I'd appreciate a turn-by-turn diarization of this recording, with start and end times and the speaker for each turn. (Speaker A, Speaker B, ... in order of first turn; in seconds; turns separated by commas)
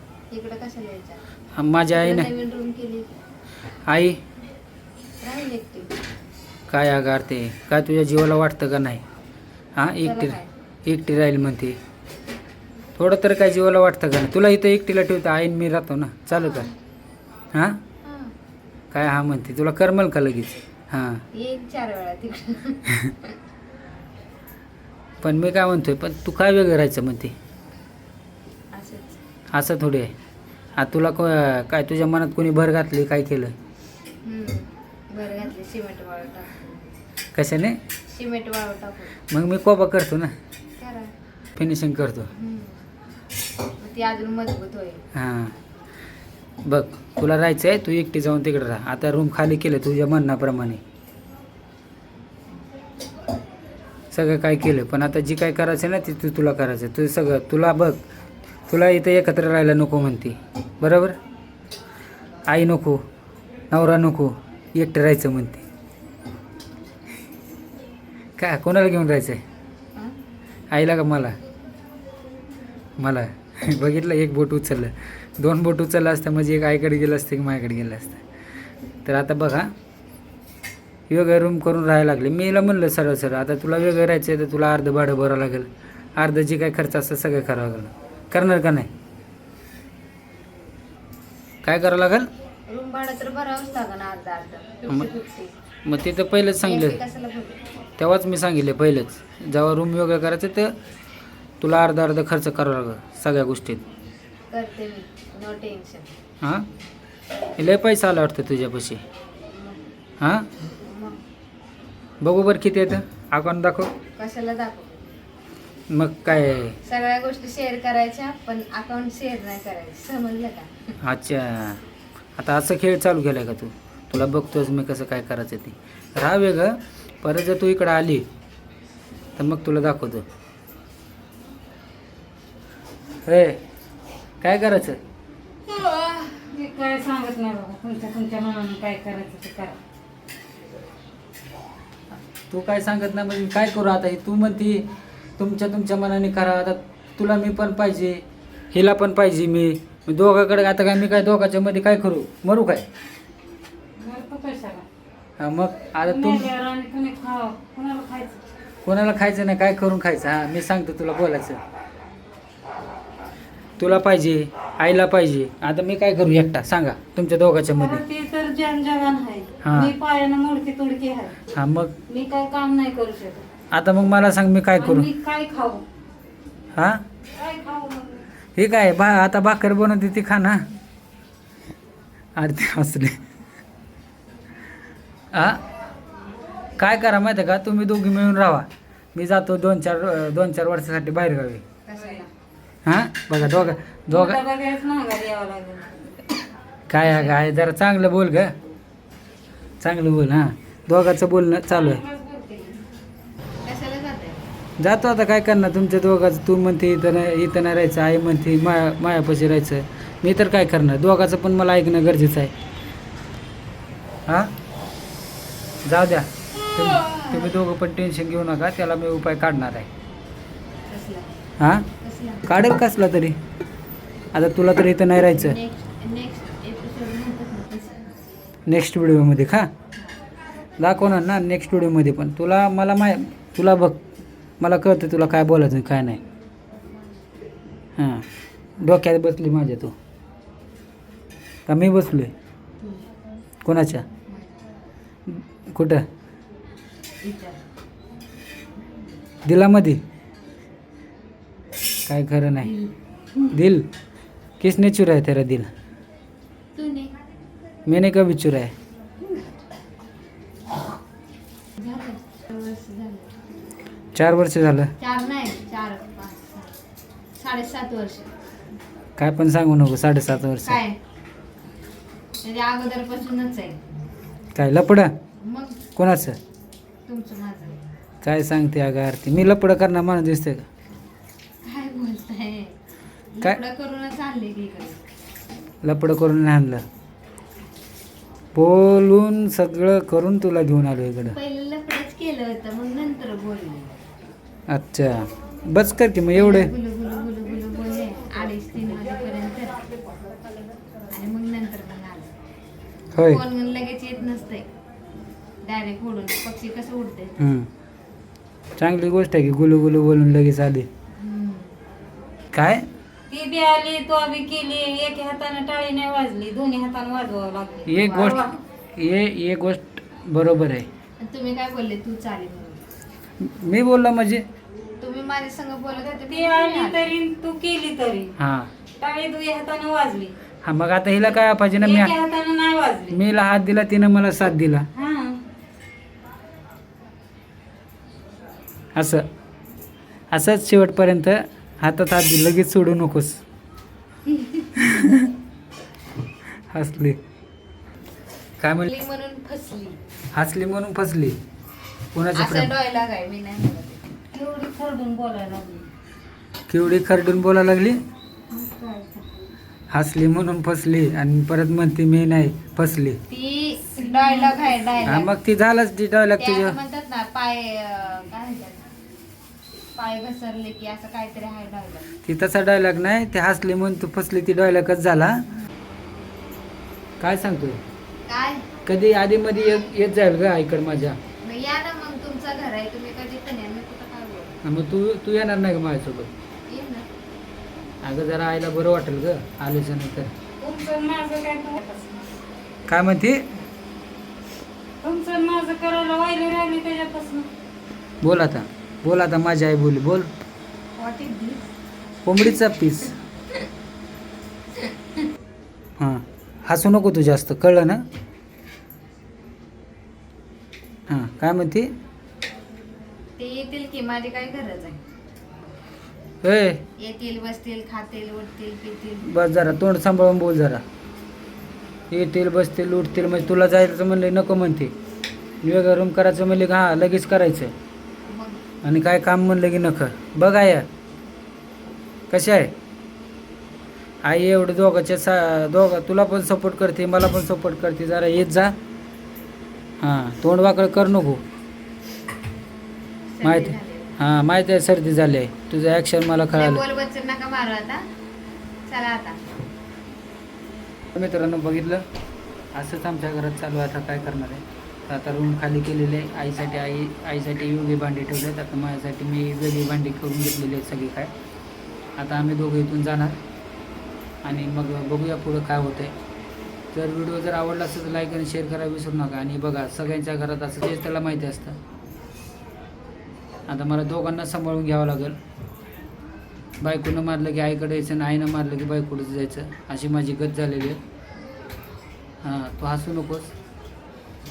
Speaker A: 0.3-1.2, Speaker B: 1.6-2.3, Speaker A: 1.9-3.1, Speaker B: 3.9-4.2, Speaker A: 5.2-5.9, Speaker B: 6.7-9.0, Speaker B: 9.8-11.8, Speaker A: 10.0-10.5, Speaker B: 12.9-16.7, Speaker A: 16.3-16.7, Speaker B: 17.5-17.8, Speaker A: 18.0-18.3, Speaker B: 18.9-21.2, Speaker A: 21.3-23.3, Speaker B: 25.2-27.3, Speaker A: 28.7-29.2, Speaker B: 29.5-30.1, Speaker B: 30.8-33.5, Speaker A: 34.2-36.9, Speaker B: 37.3-37.8, Speaker A: 38.1-39.1, Speaker B: 39.3-40.3, Speaker A: 40.8-41.1, Speaker B: 41.5-42.3, Speaker A: 42.3-42.9, Speaker A: 43.8-45.0, Speaker B: 45.1-45.5, Speaker B: 46.6-50.8, Speaker B: 54.1-58.0, Speaker B: 58.7-61.2, Speaker B: 62.5-63.0, Speaker B: 63.7-65.6, Speaker B: 68.4-69.4, Speaker B: 70.7-71.3, Speaker B: 73.0-78.2, Speaker B: 79.0-79.7, Speaker B: 81.1-88.9, Speaker B: 91.6-92.3, Speaker A: 92.7-95.5, Speaker B: 95.8-97.0, Speaker A: 96.6-97.6, Speaker B: 98.0-100.8, Speaker B: 101.6-103.8, Speaker A: 104.5-106.1, Speaker B: 106.4-106.7, Speaker B: 107.6-109.0, Speaker A: 109.5-109.8, Speaker B: 110.2-110.5, Speaker A: 110.8-111.2, Speaker B: 112.2-113.9, Speaker A: 114.2-115.0, Speaker B: 115.9-116.8, Speaker A: 116.8-121.0, Speaker B: 121.0-121.8, Speaker B: 122.3-128.2, Speaker B: 129.4-130.2, Speaker B: 133.2-133.6, Speaker B: 134.4-135.0, Speaker C: 136.4-139.8, Speaker B: 142.5-152.8, Speaker C: 154.0-154.8, Speaker B: 155.4-156.5, Speaker C: 156.0-158.4, Speaker B: 158.8-161.6, Speaker B: 163.8-168.0, Speaker C: 167.7-171.4, Speaker B: 169.6-169.9, Speaker B: 171.5-171.9, Speaker C: 172.1-173.4, Speaker B: 173.7-175.1, Speaker C: 174.8-175.8, Speaker B: 176.8-177.0, Speaker C: 177.3-178.3, Speaker B: 178.6-180.7, Speaker B: 182.3-183.2, Speaker B: 185.3-185.6, Speaker B: 186.8-191.6, Speaker A: 191.8-192.3, Speaker C: 191.9-192.2, Speaker B: 192.8-194.4, Speaker C: 193.4-195.9, Speaker B: 196.9-198.5, Speaker B: 199.8-202.0, Speaker C: 201.7-202.8, Speaker A: 203.6-204.4, Speaker B: 204.8-212.5, Speaker B: 214.3-214.5, Speaker B: 215.9-219.9, Speaker A: 216.9-217.5, Speaker A: 220.9-221.3, Speaker B: 221.6-221.9, Speaker A: 222.0-222.5, Speaker B: 222.4-223.3, Speaker B: 224.3-225.6, Speaker A: 225.2-228.1, Speaker B: 228.7-229.7, Speaker B: 230.8-234.0, Speaker B: 234.6-236.2, Speaker B: 238.0-238.2, Speaker B: 238.8-239.9, Speaker B: 241.7-242.3, Speaker A: 242.8-243.1, Speaker B: 243.6-244.1, Speaker B: 245.3-246.1, Speaker A: 247.2-247.6, Speaker B: 249.4-250.0, Speaker B: 252.1-252.7, Speaker A: 252.7-253.5, Speaker B: 253.5-253.9, Speaker B: 254.6-255.7, Speaker A: 256.8-257.1, Speaker B: 257.9-258.7, Speaker A: 261.8-263.3, Speaker B: 264.1-264.9, Speaker A: 265.0-266.7, Speaker A: 267.3-268.3, Speaker B: 269.2-270.8, Speaker A: 270.6-271.0, Speaker A: 272.4-273.8, Speaker B: 274.5-275.1, Speaker A: 275.4-275.8, Speaker B: 275.9-276.4, Speaker A: 277.1-277.8, Speaker B: 278.2-280.6, Speaker A: 281.6-282.8, Speaker A: 283.3-285.0, Speaker B: 285.8-286.8, Speaker B: 288.5-291.4, Speaker A: 291.3-293.9, Speaker B: 294.7-296.7, Speaker A: 296.3-299.8, Speaker A: 301.1-302.3, Speaker B: 303.1-303.4, Speaker A: 303.3-304.6, Speaker A: 305.6-307.4, Speaker B: 307.4-307.7, Speaker B: 308.8-310.9, Speaker A: 311.2-311.8, Speaker B: 312.5-312.8, Speaker C: 313.3-318.6, Speaker B: 317.9-320.9, Speaker A: 318.1-318.5, Speaker A: 321.2-322.8, Speaker B: 323.4-324.4, Speaker A: 325.0-327.1, Speaker C: 326.0-328.3, Speaker B: 328.4-328.7, Speaker C: 329.0-330.4, Speaker B: 330.6-332.1, Speaker C: 331.7-333.2, Speaker B: 333.1-334.9, Speaker C: 334.9-335.4, Speaker B: 338.9-339.2, Speaker B: 340.3-343.4, Speaker A: 344.3-344.7, Speaker B: 344.7-345.3, Speaker B: 346.7-347.2, Speaker B: 348.6-348.9, Speaker A: 348.9-350.0, Speaker B: 350.3-351.4, Speaker B: 352.1-352.7, Speaker A: 352.3-354.1, Speaker C: 354.3-355.9, Speaker B: 356.7-358.0, Speaker C: 358.5-359.3, Speaker B: 359.9-363.2, Speaker A: 363.3-365.3, Speaker C: 364.0-364.8, Speaker B: 365.0-366.8, Speaker A: 366.4-368.9, Speaker A: 369.9-372.1, Speaker B: 372.2-375.4, Speaker B: 377.2-377.8, Speaker A: 378.3-378.7, Speaker B: 378.9-381.2, Speaker A: 381.4-384.6, Speaker B: 384.6-386.3, Speaker A: 386.7-387.1, Speaker B: 388.0-390.3, Speaker C: 390.6-392.3, Speaker B: 392.9-393.4, Speaker C: 395.0-397.5, Speaker B: 398.2-400.3, Speaker A: 401.0-401.7, Speaker B: 402.2-403.1, Speaker B: 406.0-408.0, Speaker B: 411.1-411.9, Speaker A: 413.4-415.0, Speaker B: 416.4-416.8, Speaker A: 417.0-419.3, Speaker B: 419.2-420.8, Speaker B: 422.1-424.9, Speaker B: 425.6-427.7, Speaker A: 428.2-428.6, Speaker B: 428.8-430.9, Speaker B: 432.3-432.7, Speaker B: 434.2-438.8, Speaker B: 440.0-441.4, Speaker A: 443.3-444.2, Speaker B: 443.4-446.8, Speaker A: 446.6-448.1, Speaker A: 448.9-449.4, Speaker B: 451.1-452.0, Speaker B: 452.7-461.3, Speaker B: 462.2-463.4, Speaker B: 464.4-466.1, Speaker B: 466.9-471.8, Speaker B: 473.7-475.4, Speaker B: 476.8-481.0, Speaker B: 482.4-483.5